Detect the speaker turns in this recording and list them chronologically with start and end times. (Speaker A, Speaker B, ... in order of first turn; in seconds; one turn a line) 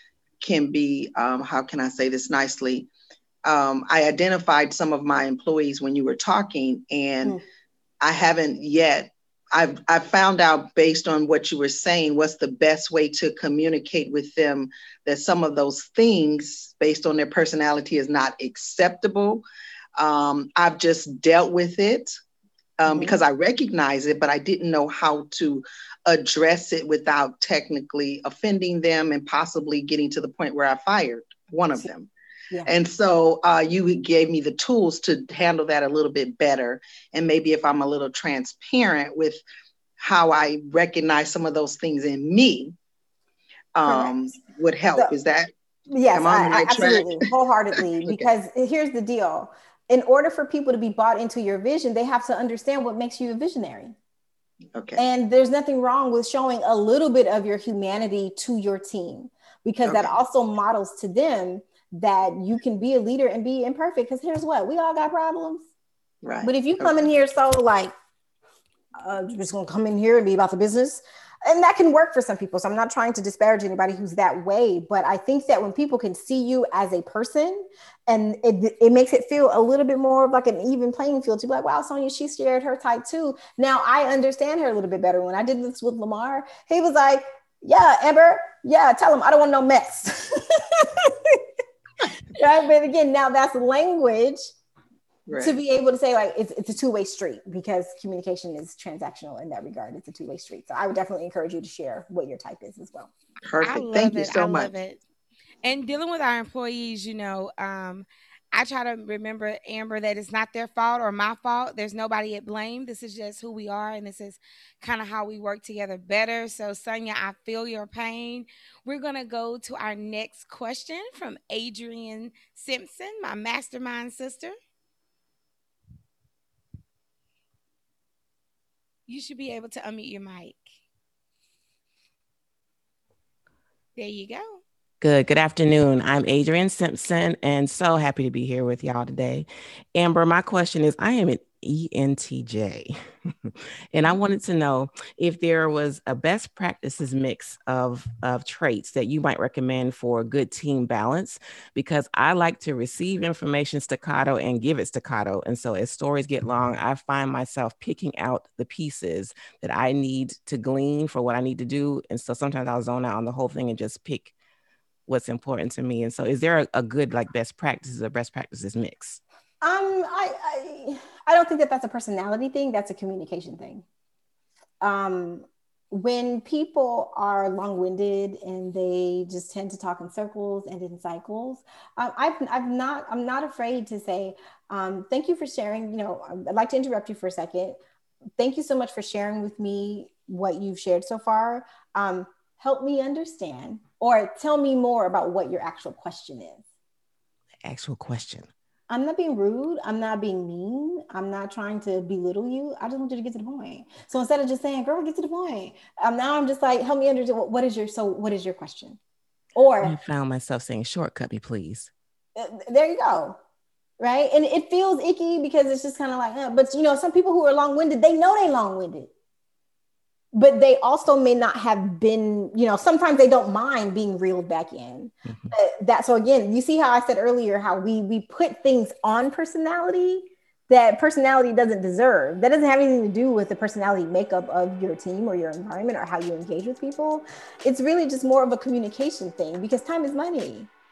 Speaker A: 0.4-2.9
Speaker A: 3.4-7.4
Speaker A: 8.0-19.4
Speaker A: 20.0-22.1
Speaker A: 22.8-32.1
Speaker B: 22.9-23.2
Speaker A: 32.6-39.4
Speaker A: 40.0-42.7
Speaker A: 43.8-45.5
Speaker B: 43.9-44.2
Speaker B: 45.9-54.0
Speaker A: 46.1-47.2
Speaker A: 54.8-55.0
Speaker B: 55.0-65.6
Speaker A: 59.8-60.1
Speaker A: 66.2-67.0
Speaker B: 66.4-67.9
Speaker B: 69.0-91.4
Speaker B: 92.3-94.5
Speaker A: 95.3-95.6
Speaker B: 95.4-103.1
Speaker A: 103.5-104.8
Speaker C: 103.6-105.0
Speaker C: 105.6-124.5
Speaker C: 129.1-130.6
Speaker C: 134.0-134.6
Speaker D: 135.0-142.9
Speaker D: 143.5-164.3
Speaker D: 165.1-169.2
Speaker B: 169.6-173.8
Speaker B: 174.8-187.8
Speaker B: 188.4-196.6
Speaker D: 197.7-198.5
Speaker B: 198.9-209.0
Speaker B: 209.6-210.0
Speaker D: 209.8-211.9
Speaker B: 212.4-213.4
Speaker B: 214.0-219.1
Speaker B: 220.3-240.7
Speaker D: 225.2-225.5